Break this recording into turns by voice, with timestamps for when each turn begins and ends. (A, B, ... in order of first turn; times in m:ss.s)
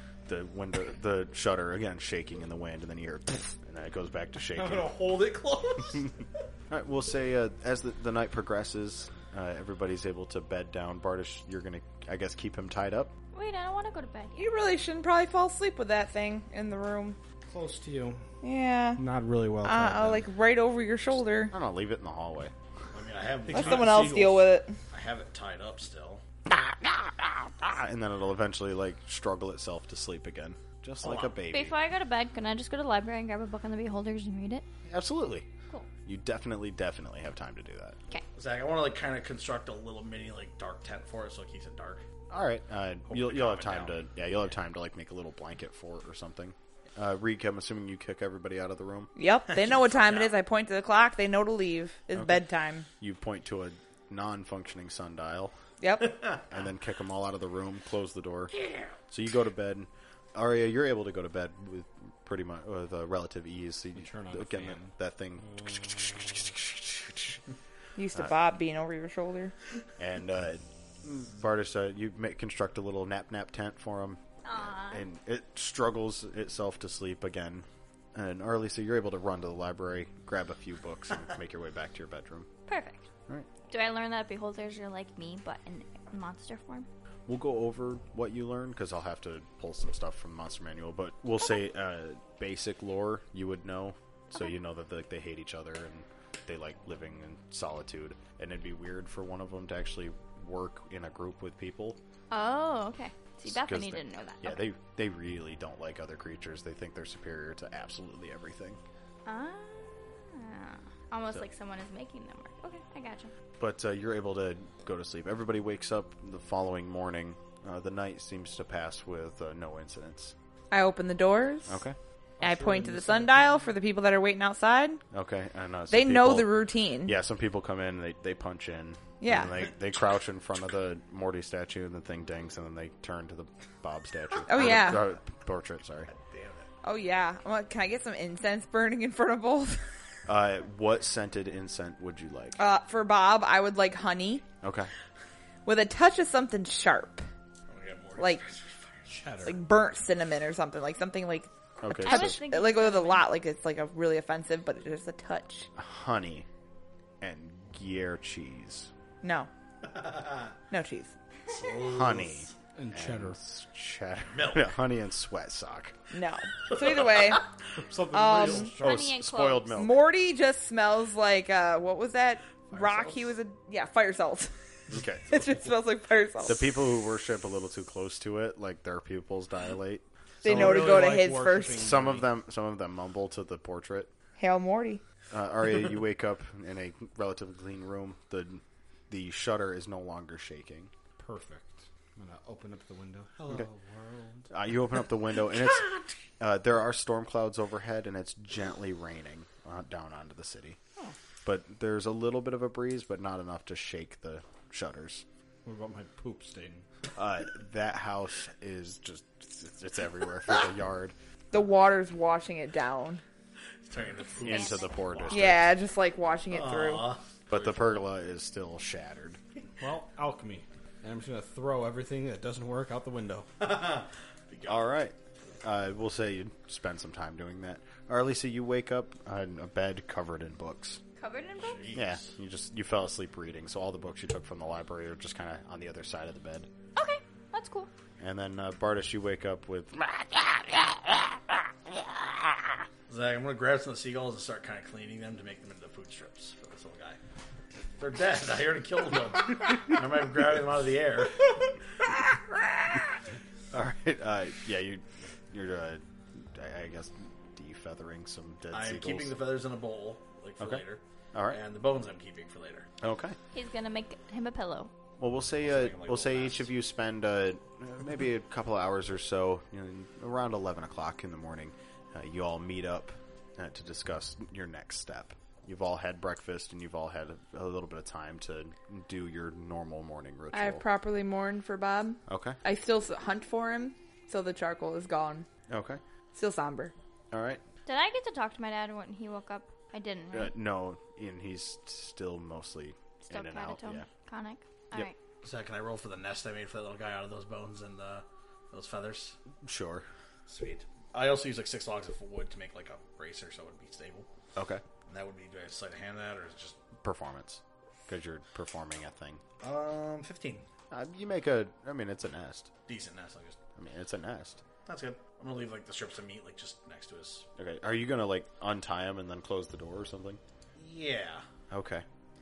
0:00.2-0:04.9 A
0:04.5-0:06.1 B
0:06.7-0:13.1 A
0:13.3-0:14.5 C
0:14.4-0:17.2 D
0:17.5-0:18.2 B
0:18.4-0:19.0 D
0:19.0-0:20.2 B
0:19.6-0:21.5 D
0:21.5-0:22.5 A
0:22.9-0:24.0 E
0:23.5-0:24.5 B
0:23.5-0:24.7 D
0:24.9-0:26.2 E
0:26.5-0:31.8 A
0:31.0-0:31.3 E
0:31.5-0:34.6 C
0:34.9-0:35.5 A
0:36.0-0:38.0 A
0:38.4-0:42.0 E
0:42.3-0:49.1 A
0:43.1-0:44.0 E
0:49.2-0:52.9 D
0:49.5-0:50.4 E
0:52.1-0:52.4 A
0:53.0-0:55.5 A
0:55.8-0:56.2 D
0:56.5-0:58.5 A
0:58.6-0:58.9 E
0:59.1-1:07.4 A
1:04.0-1:05.8 B
1:08.0-1:09.5 D
1:10.0-1:22.5 A
1:14.4-1:15.0 C
1:22.7-1:23.1 C
1:23.7-1:26.9 C
1:27.3-1:42.0 A
1:42.3-1:44.6 C
1:43.4-1:48.8 A
1:49.2-1:53.3 C
1:53.6-2:00.3 A
2:00.7-2:01.8 D
2:01.7-2:02.0 A
2:02.4-2:03.7 B
2:02.4-2:05.0 D
2:05.1-2:16.1 A
2:05.9-2:07.2 D
2:09.2-2:09.5 D
2:14.5-2:15.1 D
2:14.5-2:14.9 E
2:16.1-2:16.7 E
2:16.8-2:19.8 D
2:20.3-2:22.6 A
2:22.6-2:24.4 D
2:24.6-2:24.9 A
2:25.6-2:27.2 D
2:27.7-2:29.2 E
2:29.0-2:29.6 B
2:29.4-2:35.7 D
2:31.8-2:32.4 A
2:32.0-2:33.3 C
2:35.8-2:36.5 A
2:37.2-2:38.9 A
2:39.2-2:39.5 D
2:39.9-2:40.5 E
2:40.7-2:41.1 D
2:41.5-2:42.5 E
2:41.8-2:45.9 A
2:42.8-2:43.4 B
2:44.3-2:44.7 E
2:46.1-2:47.5 D
2:46.7-2:47.4 E
2:47.8-2:49.0 B
2:48.1-2:48.7 D
2:48.7-2:50.1 A
2:48.8-2:49.7 C
2:49.7-2:54.5 D
2:52.9-2:53.2 B
2:54.9-2:55.4 A
2:55.3-2:56.7 D
2:56.4-3:01.0 A
3:00.4-3:01.9 D
3:00.4-3:02.3 B
3:01.8-3:04.1 A
3:04.4-3:05.0 D
3:05.3-3:10.9 A
3:11.2-3:14.5 B
3:14.5-3:20.8 A
3:21.4-3:25.2 A
3:25.6-3:26.8 B
3:27.2-3:31.1 A
3:31.5-3:33.2 D
3:33.8-3:35.5 E
3:34.2-3:35.0 C
3:34.4-3:35.7 A
3:35.3-3:37.1 D
3:36.5-3:38.1 E
3:37.5-3:39.4 A
3:39.8-3:43.5 B
3:43.6-3:44.9 E
3:44.6-3:51.0 A
3:51.2-3:51.9 C
3:51.6-3:52.3 E
3:51.9-3:56.7 A
3:57.0-3:57.9 C
3:58.2-4:01.2 A
4:03.1-4:07.2 E
4:08.0-4:11.4 E
4:13.7-4:19.3 A
4:18.7-4:22.9 E
4:20.6-4:21.6 A
4:23.0-4:23.4 A
4:23.5-4:24.9 C
4:25.2-4:40.8 A
4:25.6-4:26.7 E
4:40.5-4:45.5 D
4:42.3-4:42.6 A
4:45.7-4:46.0 A
4:46.3-4:46.9 D
4:47.3-4:47.6 A
4:47.8-4:50.5 C
4:50.3-4:54.1 A
4:53.2-4:55.1 C
4:55.4-4:59.4 E
4:59.6-5:00.1 A
5:00.5-5:04.3 E
5:04.6-5:04.8 A
5:05.1-5:06.8 E
5:07.0-5:09.4 A
5:09.6-5:10.6 E
5:10.9-5:12.7 A
5:12.9-5:13.6 E
5:13.8-5:14.6 A
5:14.8-5:17.4 E
5:17.6-5:20.4 A
5:20.8-5:21.4 E
5:21.7-5:22.0 A